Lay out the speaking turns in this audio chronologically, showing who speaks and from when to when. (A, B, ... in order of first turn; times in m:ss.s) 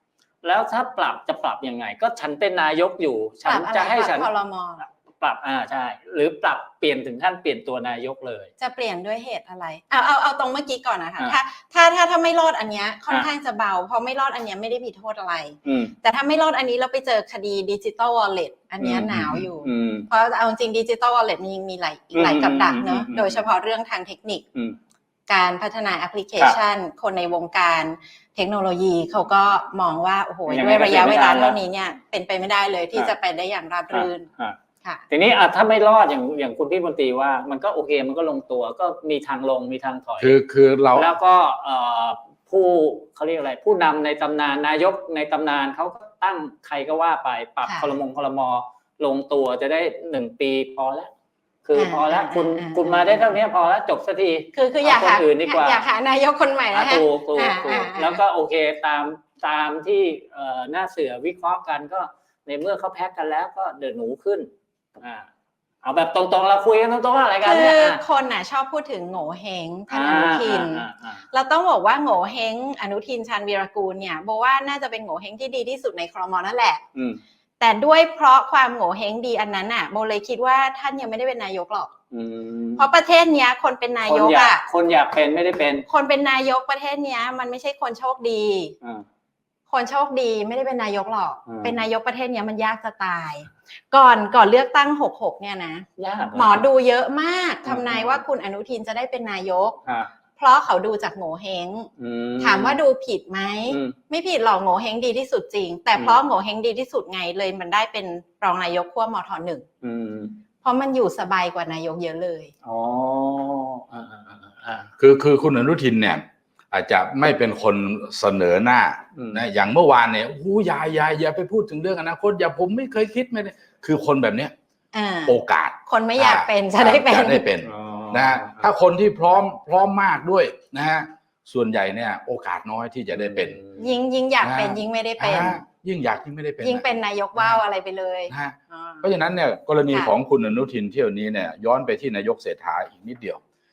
0:00.4-0:04.3 A
0:03.5-0:04.8 B
0:05.1-0:08.5 A
0:08.6-0:24.4 B
0:15.6-0:15.9 A
0:18.8-0:20.1 A
0:22.1-0:23.4 A
0:25.3-0:34.3 B
0:30.5-0:31.6 A
0:33.9-0:34.6 A
0:35.1-0:40.4 A
0:40.2-0:41.1 C
0:41.0-0:51.1 A
0:47.6-0:48.0 B
0:51.6-0:55.8 A
0:51.8-0:53.4 B
0:54.5-0:58.2 B
0:56.7-1:04.5 A
1:05.0-1:05.2 A
1:05.8-1:08.0 A
1:07.4-1:16.8 B
1:09.9-1:11.2 A
1:16.9-1:17.2 A
1:17.6-1:21.9 B
1:22.1-1:22.9 A
1:22.8-1:24.6 B
1:24.0-1:25.8 A
1:25.9-1:28.8 B
1:29.7-1:39.8 B
1:31.5-1:31.8 A
1:36.0-1:36.7 A
1:37.6-1:38.2 A
1:40.4-1:49.6 B
1:42.0-1:42.8 A
1:43.7-1:43.9 A
1:49.8-1:50.4 A
1:50.6-1:52.5 B
1:52.6-1:54.9 A
1:55.0-2:04.5 C
1:59.2-1:59.4 A
2:04.9-2:07.4 B
2:05.2-2:13.6 C
2:07.6-2:08.7 A
2:13.1-2:13.9 A
2:13.8-2:15.6 B
2:14.4-2:16.8 C
2:16.6-2:19.1 B
2:18.3-2:23.4 C